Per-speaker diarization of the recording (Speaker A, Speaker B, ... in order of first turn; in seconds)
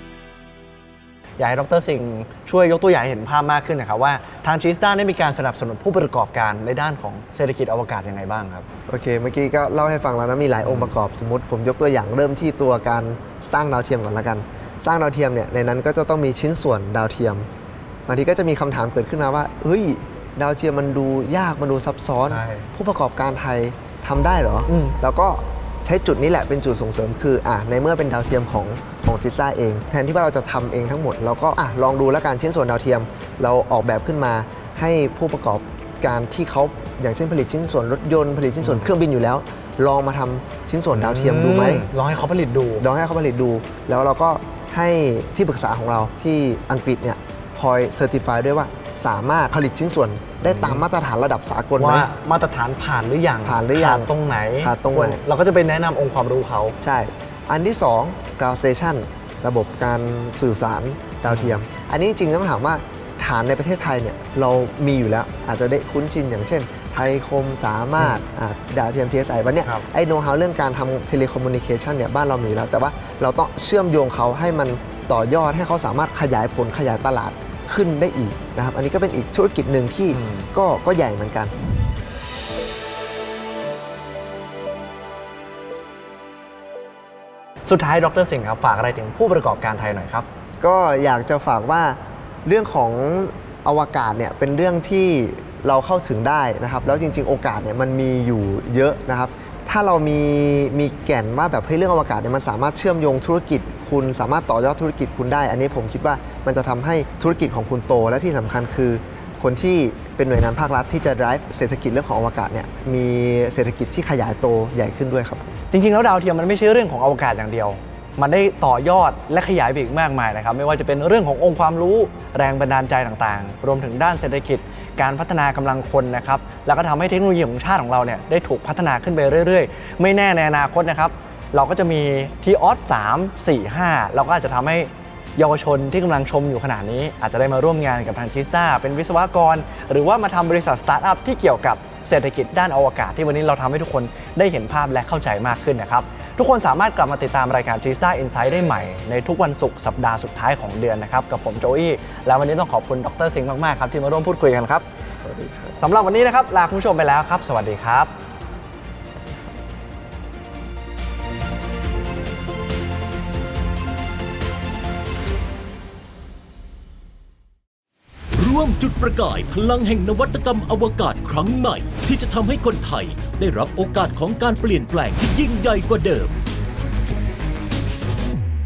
Speaker A: 1.4-8.7, 10.6-10.9, 22.2-22.7, 24.7-25.0, 38.6-38.9, 40.9-42.9, 50.4-50.9, 51.8-56.8, 61.3-61.6, 80.1-80.5, 87.7-90.3, 115.7-154.9, 155.8-158.1
Speaker B: 8.9-17.5, 18.1-41.9, 42.8-52.1, 53.4-55.2, 56.8-81.5, 90.6-115.6, 155.2-155.8
Speaker C: 168.3-176.4